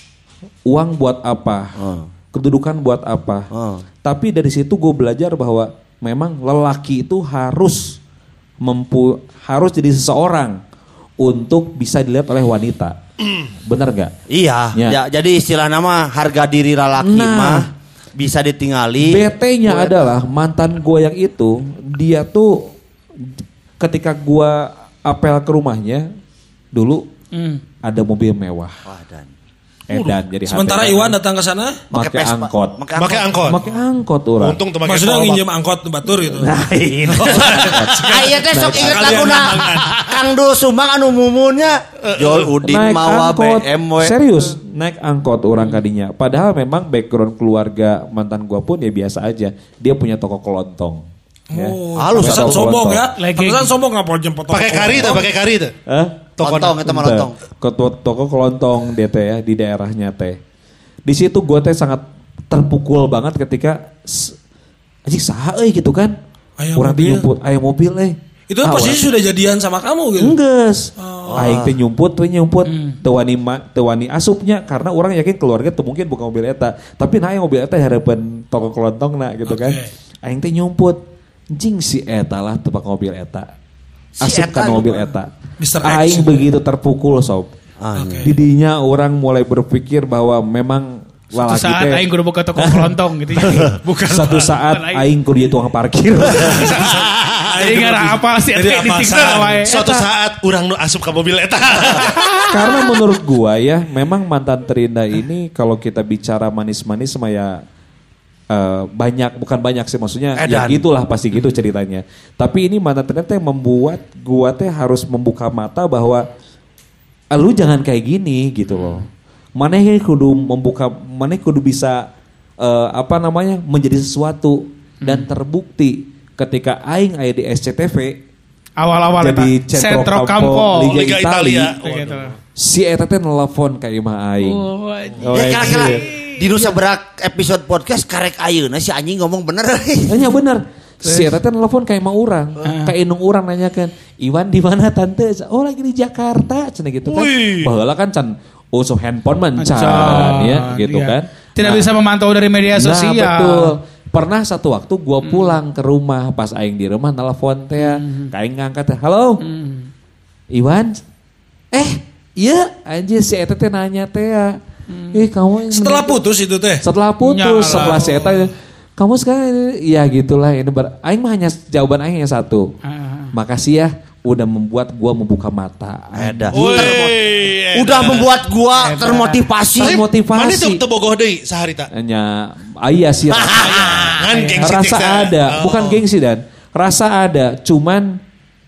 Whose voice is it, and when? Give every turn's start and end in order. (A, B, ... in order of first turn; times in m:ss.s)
0:00.7-0:01.8 A
0:01.8-0:02.1 B
0:02.3-0:03.5 A
0:03.5-0:03.8 B
0:04.0-0:08.0 A
0:08.6-0:10.6 A
0:11.2-0:13.0 A
0:13.7-0:14.2 A
0:14.3-0:20.0 B
0:17.0-0:17.7 A
0:19.0-0:26.1 A
0:26.7-0:27.1 A
0:27.3-0:27.6 C
0:27.8-0:28.8 A
0:28.9-0:29.3 B
0:29.9-0:31.2 A
0:30.5-0:31.8 D
0:31.9-0:32.8 A
0:31.9-0:33.5 B
0:33.0-0:33.6 E
0:33.5-0:34.6 A
0:34.4-0:35.4 E
0:34.8-0:36.5 D
0:36.1-0:39.2 A
0:37.2-0:39.8 D
0:37.2-0:40.2 E
0:38.1-0:44.2 B
0:42.0-0:42.6 E
0:42.6-0:53.1 A
0:51.5-0:55.3 D
0:52.0-0:52.7 B
0:53.2-0:53.7 C
0:54.5-0:55.8 E
0:55.9-1:00.4 A
0:56.4-0:57.4 B
1:01.1-1:04.4 A
1:05.1-1:06.2 A
1:06.6-1:07.3 D
1:06.8-1:09.1 A
1:08.5-1:10.4 D
1:10.2-1:21.0 A
1:11.0-1:11.6 D
1:11.3-1:11.8 B
1:12.7-1:13.0 C
1:19.5-1:19.9 D
1:21.5-1:23.5 A
1:24.2-1:25.1 B
1:24.2-1:27.5 A
1:25.6-1:26.4 D
1:27.8-1:28.3 B
1:28.0-1:28.3 D
1:28.2-1:32.0 A
1:31.4-1:33.7 C
1:32.6-1:36.9 A
1:33.8-1:34.5 D
1:34.7-1:35.1 C
1:36.4-1:39.7 D
1:36.9-1:37.4 E
1:37.6-1:40.0 C
1:39.7-1:42.3 E
1:42.5-1:47.6 A
1:48.5-1:56.2 A
1:50.4-1:50.8 E
1:57.3-2:02.1 A
1:58.8-1:59.0 C
2:02.6-2:08.2 A
2:05.0-2:05.3 C
2:08.8-2:11.0 C
2:09.2-2:11.8 A
2:10.9-2:12.3 E
2:11.8-2:12.3 C
2:12.6-2:14.7 A
2:14.4-2:16.7 C
2:15.2-2:16.0 A
2:15.3-2:20.3 B
2:20.1-2:31.9 A
2:21.0-2:21.3 C
2:22.6-2:22.9 C
2:27.1-2:27.7 E
2:29.6-2:33.7 C
2:32.7-2:39.4 A
2:35.2-2:35.6 C
2:37.8-2:38.3 C
2:39.4-2:39.9 C
2:40.5-2:41.0 A
2:41.7-2:44.6 A
2:44.9-2:45.2 C
2:45.1-2:46.2 A
2:45.7-2:46.8 D
2:46.8-2:52.8 A
2:47.2-2:48.1 C
2:47.9-2:48.5 D
2:52.8-2:53.3 C
2:53.3-2:56.9 A
2:56.2-2:57.2 B
2:56.5-2:58.3 E
2:57.8-3:00.0 B
2:58.8-2:59.4 C
2:59.8-3:00.8 A
2:59.8-3:01.9 E
3:01.9-3:08.2 A
3:03.3-3:04.2 B
3:03.7-3:06.0 E
3:04.3-3:04.6 C